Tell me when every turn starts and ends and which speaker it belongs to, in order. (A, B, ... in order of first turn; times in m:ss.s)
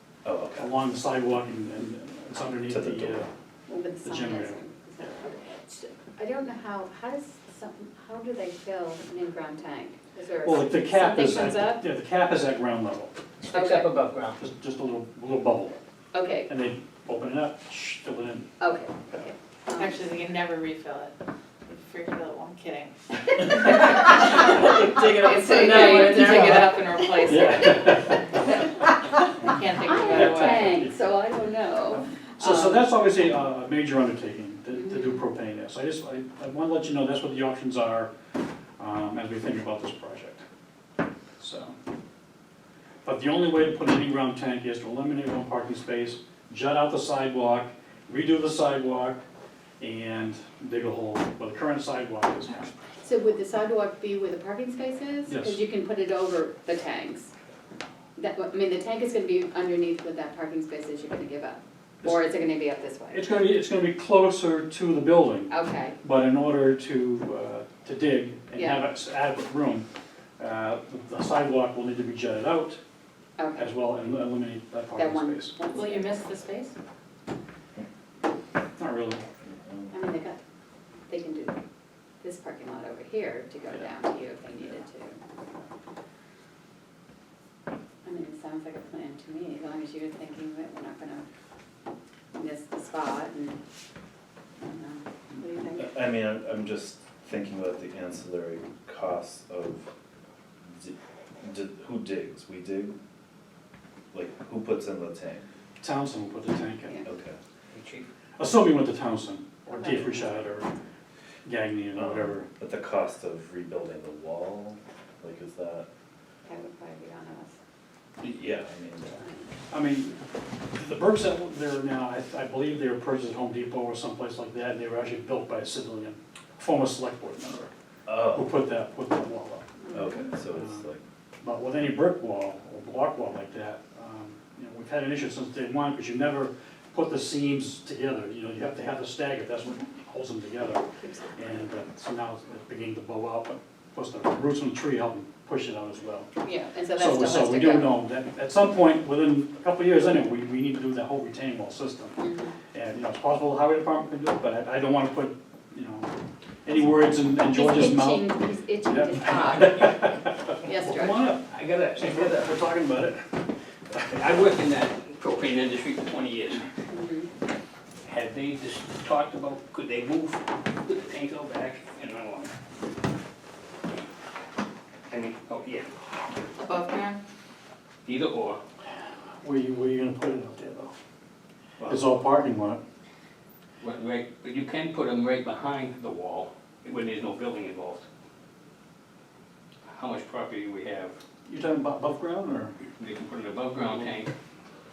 0:00.2-0:00.7 A
0:00.6-0:03.3 B
0:02.7-0:03.2 A
0:03.7-0:11.8 C
0:04.0-0:04.6 B
0:10.4-0:13.1 B
0:13.4-0:14.4 D
0:13.5-0:13.9 C
0:14.4-0:15.8 B
0:16.1-0:16.5 C
0:16.5-0:18.5 B
0:18.6-0:20.0 C
0:19.7-0:21.1 E
0:21.6-0:28.1 E
0:23.4-0:27.3 C
0:26.2-0:26.6 B
0:27.2-0:28.4 B
0:29.4-0:30.8 E
0:29.8-0:32.9 C
0:30.0-0:31.1 B
0:31.9-0:38.1 B
0:34.7-0:35.2 C
0:38.8-0:40.4 B
0:41.4-0:41.7 B
0:43.0-0:49.2 B
0:49.8-0:52.7 B
0:53.0-0:57.3 C
0:55.3-0:55.6 B
0:58.2-1:03.4 C
1:03.1-1:09.9 B
1:05.5-1:06.0 C
1:08.5-1:08.9 C
1:10.4-1:12.8 B
1:13.4-1:13.7 C
1:13.6-1:15.6 B
1:14.9-1:16.2 C
1:15.7-1:16.7 E
1:18.8-1:19.2 B
1:19.4-1:19.9 A
1:19.9-1:20.4 C
1:21.1-1:21.6 C
1:22.2-1:25.2 C
1:28.0-1:31.2 C
1:32.3-1:33.6 C
1:34.6-1:36.0 C
1:35.8-1:39.9 A
1:40.6-1:43.0 A
1:44.1-1:45.4 A
1:45.8-1:47.0 B
1:47.0-1:47.4 A
1:47.7-1:48.1 D
1:48.4-1:50.7 B
1:49.7-1:50.4 C
1:51.4-1:52.5 B
1:52.0-1:55.9 A
1:56.4-1:57.6 C
1:58.2-1:59.2 A
1:59.2-1:59.4 C
1:59.7-2:00.2 B
2:00.7-2:07.7 B
2:08.1-2:08.5 A
2:08.2-2:09.8 B
2:09.8-2:10.2 C
2:09.9-2:11.0 A
2:10.5-2:10.9 B
2:11.4-2:26.3 B
2:21.0-2:21.6 C
2:26.4-2:28.0 C
2:27.0-2:36.1 B
2:32.2-2:32.6 C
2:36.6-2:38.3 B
2:37.5-2:41.2 C
2:38.8-2:43.2 B
2:41.5-2:42.6 D
2:43.9-2:46.7 D
2:46.9-2:47.3 C
2:48.0-2:52.5 D
2:55.1-2:55.9 D
2:56.6-2:57.2 E
2:58.0-2:58.6 D
2:59.4-3:00.9 B
3:01.9-3:02.8 B
3:03.8-3:08.0 D
3:09.9-3:11.2 D
3:11.4-3:12.8 B
3:13.0-3:14.3 D